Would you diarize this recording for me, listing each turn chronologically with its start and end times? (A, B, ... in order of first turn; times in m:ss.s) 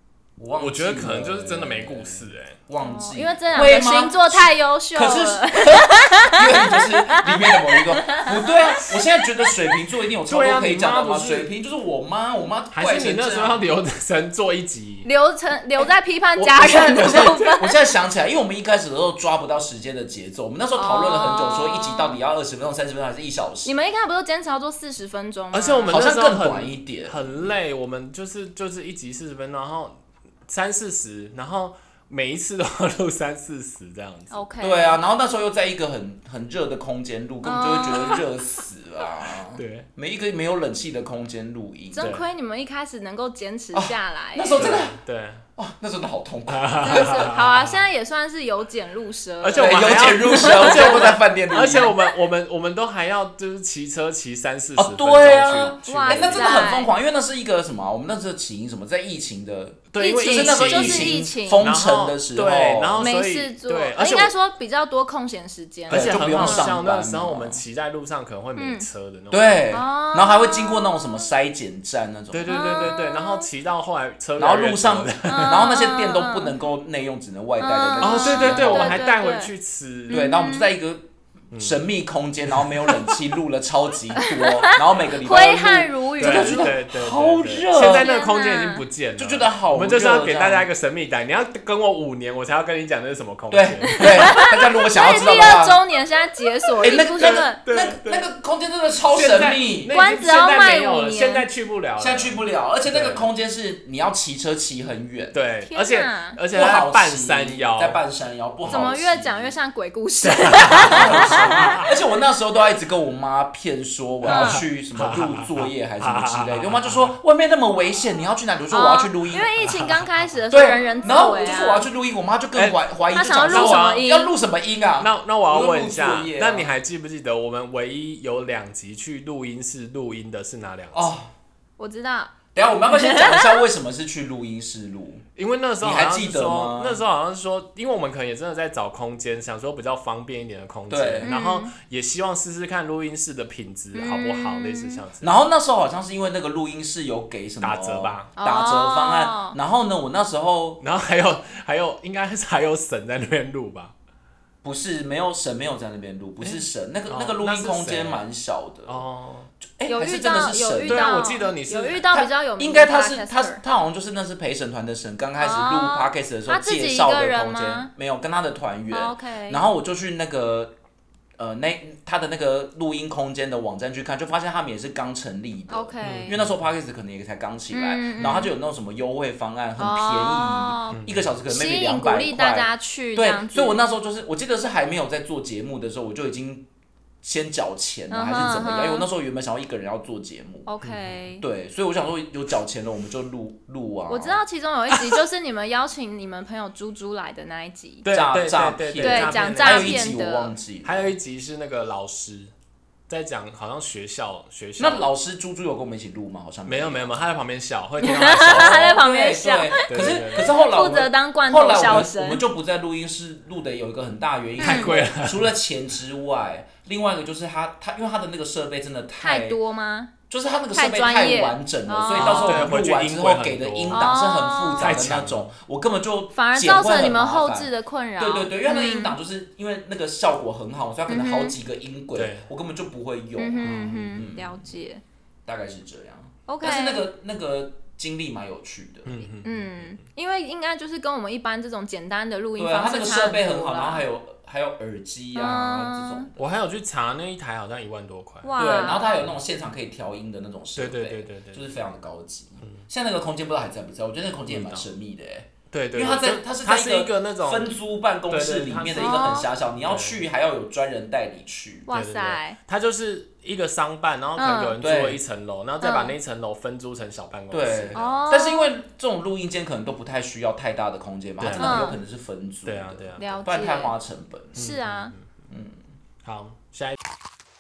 0:00.4-0:13.6 A
0:00.6-0:02.6 B
0:02.8-0:09.5 C
0:10.3-0:11.5 B
0:12.7-0:15.1 B
0:15.0-0:17.8 C
0:16.4-0:23.7 A
0:20.8-0:22.2 C
0:23.6-0:26.0 C
0:25.5-0:34.4 B
0:25.9-0:27.3 A
0:34.3-0:35.0 C
0:34.6-0:42.2 A
0:37.4-0:38.2 C
0:39.6-0:39.9 B
0:41.9-0:44.8 C
0:43.7-0:45.0 A
0:44.6-0:45.4 B
0:45.6-0:47.4 A
0:46.5-0:47.7 B
0:46.8-0:51.2 C
0:49.4-0:56.6 B
0:49.6-0:52.0 A
0:54.8-1:03.1 A
0:55.5-0:56.9 C
0:59.9-1:04.3 B
1:00.0-1:01.7 C
1:03.0-1:06.7 C
1:05.9-1:09.6 B
1:05.9-1:07.6 A
1:08.6-1:08.9 C
1:09.3-1:12.9 A
1:09.7-1:11.3 C
1:12.3-1:15.6 B
1:12.5-1:13.5 C
1:14.4-1:19.0 A
1:15.2-1:16.6 C
1:17.6-1:19.5 C
1:18.0-1:20.2 B
1:20.1-1:20.7 C
1:20.1-1:28.1 A
1:21.5-1:21.8 B
1:22.5-1:22.9 B
1:24.2-1:26.8 C
1:26.2-1:34.4 B
1:27.9-1:28.8 C
1:29.2-1:30.7 A
1:33.5-1:35.8 A
1:33.9-1:37.6 C
1:36.8-1:39.9 A
1:37.2-1:38.3 B
1:39.1-1:43.3 B
1:39.9-1:41.5 C
1:42.0-1:45.4 A
1:45.3-1:48.0 B
1:45.7-1:46.4 C
1:46.5-1:49.5 A
1:48.7-1:51.9 C
1:50.2-1:51.9 B
1:50.8-1:59.5 A
1:54.3-1:57.2 B
1:54.3-1:54.6 C
1:58.7-2:01.9 C
1:59.6-2:00.1 B
2:00.5-2:06.7 A
2:03.1-2:04.3 C
2:03.5-2:04.0 B
2:05.0-2:11.1 B
2:10.9-2:11.3 A
2:11.8-2:12.4 C
2:12.6-2:15.2 A
2:12.9-2:13.6 C
2:15.4-2:25.3 B
2:15.8-2:17.0 A
2:20.9-2:21.3 A
2:21.2-2:21.7 C
2:23.9-2:25.0 C
2:25.2-2:30.8 A
2:27.6-2:28.3 B
2:28.4-2:29.6 C
2:30.8-2:33.9 B
2:34.6-2:39.0 A
2:36.4-2:38.2 B
2:38.9-2:39.5 B
2:39.8-2:41.2 A
2:39.9-2:43.6 C
2:40.9-2:42.0 B
2:42.1-2:50.7 A
2:45.4-2:47.9 C
2:48.9-2:49.6 C
2:51.4-3:06.7 A
2:55.7-2:56.3 C
2:56.0-2:56.6 B
2:57.7-2:58.5 C
2:59.8-3:03.8 C
3:00.9-3:01.3 B
3:07.2-3:10.7 A
3:08.1-3:09.0 C
3:10.7-3:11.4 C
3:10.8-3:11.2 B
3:11.4-3:14.4 A
3:14.1-3:18.1 C
3:18.0-3:20.1 B
3:18.1-3:21.2 A
3:19.0-3:20.5 C
3:20.8-3:22.5 B
3:23.1-3:25.1 B
3:24.8-3:27.3 A
3:26.6-3:28.9 B
3:28.0-3:32.4 C
3:28.4-3:39.6 A
3:29.9-3:30.5 B
3:34.6-3:35.0 C
3:34.6-3:35.5 B
3:39.2-3:40.1 C
3:40.3-3:54.7 A
3:40.7-3:42.7 C
3:42.1-3:44.1 B
3:43.9-3:45.0 C
3:44.8-3:45.5 B
3:46.3-3:49.2 C
3:51.1-3:51.6 C
3:52.2-3:52.5 B
3:53.4-3:55.0 C
3:55.5-3:59.3 A
3:56.5-3:57.1 C
3:59.1-3:59.9 B
3:59.4-4:04.0 C
4:02.6-4:06.6 A
4:05.4-4:06.3 C
4:06.4-4:09.0 B
4:08.4-4:09.1 C
4:08.6-4:21.9 A
4:10.8-4:11.6 B
4:14.5-4:14.9 B
4:15.7-4:17.8 B
4:18.3-4:20.2 B
4:19.0-4:19.5 C
4:21.9-4:22.6 C
4:21.9-4:28.2 B
4:24.4-4:24.8 C
4:24.8-4:25.2 A
4:25.8-4:26.1 C
4:27.5-4:34.6 A
4:28.0-4:28.7 C
4:31.4-4:32.0 B
4:31.6-4:32.0 C
4:32.6-4:33.4 B
4:33.2-4:34.0 C
4:34.6-4:35.1 C
4:34.6-4:35.3 B
4:35.5-4:35.8 A
4:36.2-4:37.0 B